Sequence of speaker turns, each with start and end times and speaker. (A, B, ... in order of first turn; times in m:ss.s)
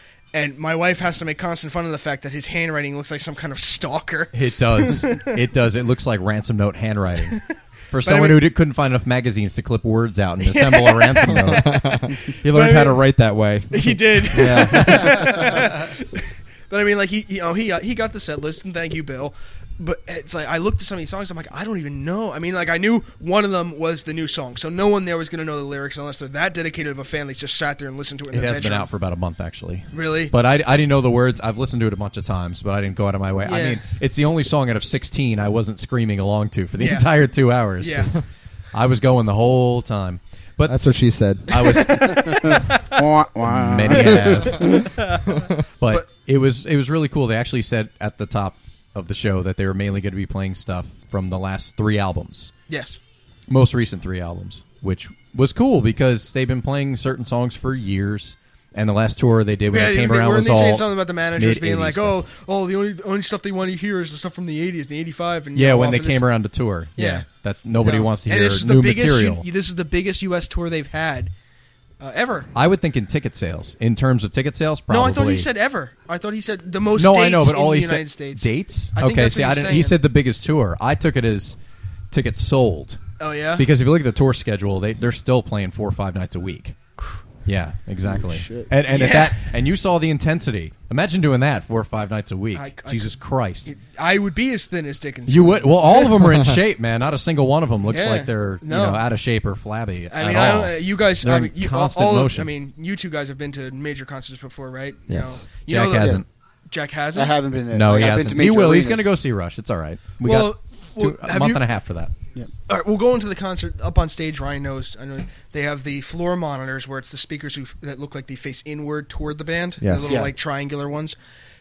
0:00.3-0:05.4 A
0:04.3-0:07.4 B
0:07.9-0:11.9 B
0:08.0-0:08.4 A
0:10.4-0:13.0 A
0:11.3-0:15.7 C
0:13.7-0:28.9 A
0:28.3-0:38.2 B
0:29.9-0:30.3 A
0:33.4-0:33.8 A
0:36.8-0:37.1 A
0:37.8-0:38.2 A
0:38.7-0:40.9 B
0:40.6-0:41.8 C
0:41.5-0:42.7 B
0:41.5-0:43.0 A
0:42.0-0:44.9 D
0:43.4-0:44.9 B
0:44.6-0:46.0 A
0:45.8-0:52.5 B
0:52.7-0:53.0 A
0:53.5-1:02.1 B
0:59.7-1:06.2 A
1:05.6-1:09.4 B
1:07.0-1:07.2 A
1:07.8-1:11.3 A
1:12.0-1:12.5 A
1:12.5-1:15.5 B
1:14.9-1:20.0 A
1:17.0-1:21.6 B
1:22.1-1:23.0 B
1:23.2-1:23.6 A
1:23.6-1:26.8 B
1:27.4-1:33.7 B
1:28.0-1:28.7 D
1:28.9-1:29.4 A
1:32.5-1:36.2 A
1:35.3-1:42.5 B
1:37.9-1:39.0 A
1:40.1-1:47.3 A
1:45.1-1:45.4 C
1:45.7-1:46.2 B
1:47.1-1:49.1 D
1:47.7-1:52.1 B
1:50.2-1:51.6 A
1:52.7-2:01.1 A
1:59.8-2:00.2 C
2:00.0-2:00.3 D